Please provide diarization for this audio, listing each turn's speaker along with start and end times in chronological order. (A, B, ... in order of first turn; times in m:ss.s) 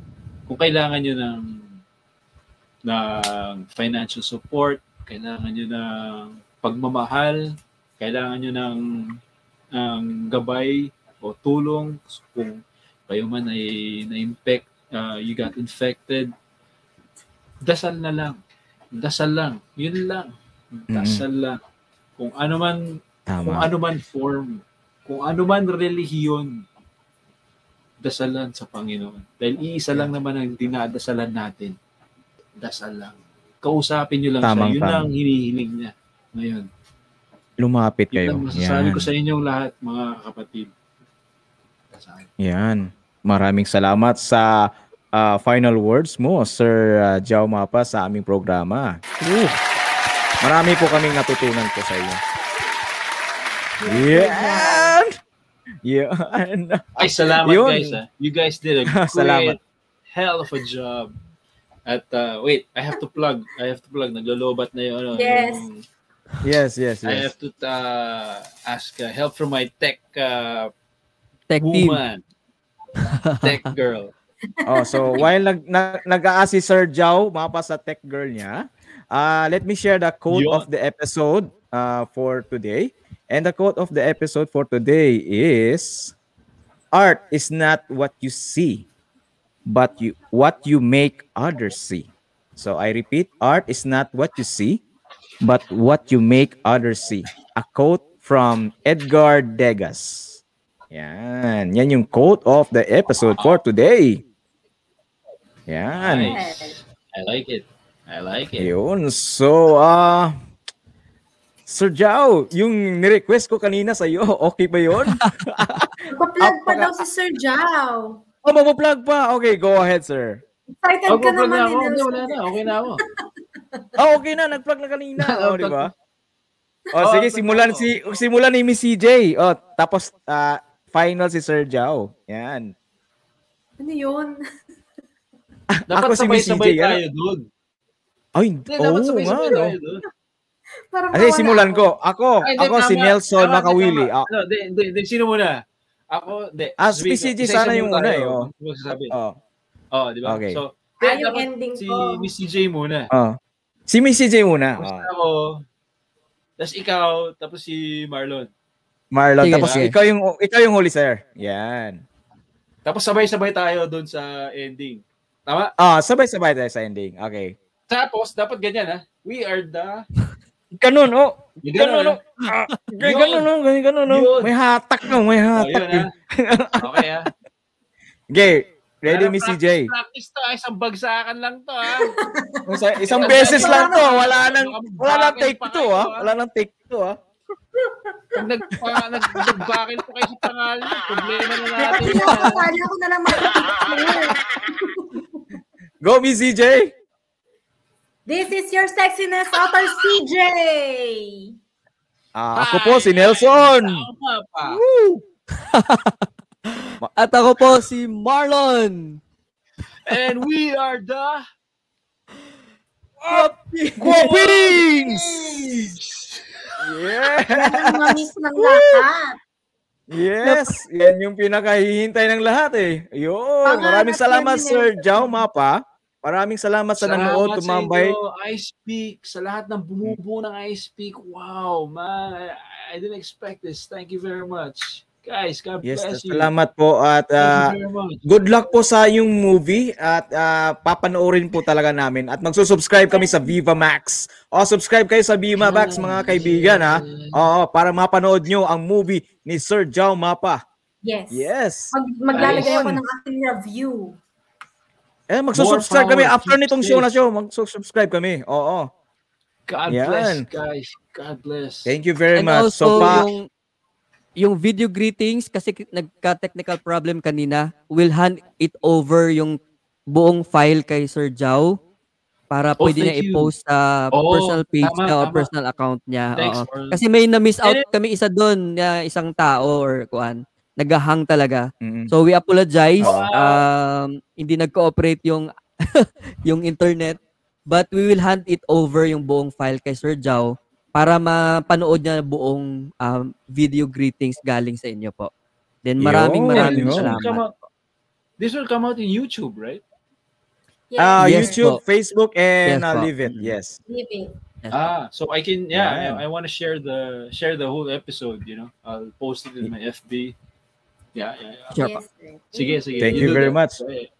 0:00.5-0:01.8 A
0:02.8-0:09.2 A
0:09.8-0:16.3 A
0:17.6-0:18.4 A
0:18.9-0:21.6 A
0:20.9-0:21.2 B
0:22.2-0:22.9 A
0:23.3-0:23.7 B
0:23.4-0:26.6 A
0:28.0-0:31.7 A
0:32.6-0:36.7 A
0:34.4-0:35.0 B
0:37.6-0:39.1 B
0:38.1-0:40.7 A
0:41.9-0:42.3 A
0:42.4-0:44.5 B
0:45.1-0:49.6 B
0:50.4-0:52.2 B
0:53.8-0:55.0 C
0:53.8-0:55.0 B
0:55.8-0:57.9 B
0:57.0-0:59.6 A
0:59.0-0:59.6 B
1:00.1-1:01.1 A
1:01.9-1:05.8 A
1:05.2-1:05.6 C
1:06.4-1:07.3 B
1:07.0-1:10.7 A
1:11.5-1:12.0 D
1:11.6-1:12.2 A
1:13.1-1:13.5 D
1:13.4-1:14.1 A
1:14.6-1:15.2 C
1:14.6-1:26.1 B
1:20.3-1:20.6 A
1:26.9-1:28.8 B
1:29.7-1:34.8 B
1:35.4-1:40.4 B
1:40.9-1:44.2 B
1:45.7-1:46.3 B
1:45.9-1:48.7 A
1:46.2-1:46.8 C
1:48.6-1:50.3 B
1:51.7-1:55.7 B
1:56.1-1:58.2 C
1:56.4-1:56.9 B
1:58.4-2:00.4 B
2:00.7-2:02.5 C
2:01.1-2:03.0 A
2:04.0-2:05.9 B
2:05.2-2:05.9 A
2:07.0-2:12.7 B
2:07.0-2:08.2 A
2:13.8-2:14.4 C
2:15.9-2:17.0 B
2:15.9-2:17.4 A
2:18.4-2:19.7 B
2:18.7-2:20.0 A
2:20.9-2:21.9 C
2:21.1-2:24.2 B
2:22.4-2:25.5 A
2:26.1-2:29.1 A
2:26.8-2:28.5 B
2:29.9-2:33.1 A
2:30.3-2:30.6 B
2:31.0-2:32.3 C
2:33.9-2:35.1 B
2:34.8-2:35.6 A
2:36.6-2:38.5 A
2:39.1-2:42.0 B
2:39.4-2:39.9 D
2:39.6-2:39.9 A
2:42.8-2:45.7 A
2:45.8-2:47.5 B
2:47.9-2:50.0 A
2:50.8-2:56.7 B
2:51.6-2:52.2 A
2:53.0-2:53.5 A
2:54.1-2:54.5 A
2:55.5-2:56.0 A
2:56.8-2:57.3 A
2:58.3-2:59.9 B
2:59.0-3:02.1 A
3:02.0-3:04.1 C
3:02.7-3:07.1 B
3:03.2-3:06.3 A
3:08.3-3:12.7 A
3:11.8-3:15.4 C
3:11.9-3:12.3 B
3:16.0-3:16.9 B
3:18.3-3:21.5 C
3:22.4-3:24.0 B
3:22.5-3:24.8 A
3:24.7-3:25.2 B
3:25.6-3:26.0 D
3:27.2-3:29.2 D
3:30.1-3:31.4 A
3:33.2-3:35.2 B
3:34.0-3:35.2 A
3:36.0-3:36.4 A
3:36.8-3:39.0 B
3:37.5-3:39.3 C
3:40.1-3:48.1 B
3:43.6-3:45.3 C
3:47.0-3:56.5 A
3:55.8-3:57.7 B
3:57.4-3:58.2 A
3:58.2-4:10.6 B
4:03.0-4:03.5 C
4:05.6-4:07.4 A
4:11.0-4:14.2 C
4:11.3-4:12.9 B
4:12.3-4:12.8 A
4:15.3-4:18.9 B
4:15.5-4:17.1 A
4:19.7-4:21.9 A
4:19.9-4:20.4 B
4:21.8-4:23.2 B
4:22.3-4:23.5 D
4:22.9-4:23.2 A
4:24.4-4:29.6 D
4:30.1-4:31.8 D
4:32.5-4:55.3 D
4:32.8-4:33.5 A
4:34.1-4:35.5 A
4:36.4-4:37.0 A
4:41.8-4:42.1 B
4:43.0-4:43.6 A
4:43.0-4:43.3 B
4:55.8-4:57.4 D
4:56.0-4:57.1 B
4:56.5-4:57.6 A
4:58.4-4:59.8 A
5:00.9-5:01.7 C
5:01.0-5:03.8 B
5:01.2-5:01.8 D
5:02.7-5:03.5 D
5:03.9-5:04.3 C
5:04.7-5:10.3 A
5:05.7-5:06.2 B
5:11.1-5:11.8 A
5:11.8-5:13.4 C
5:12.5-5:14.1 A
5:13.0-5:13.7 B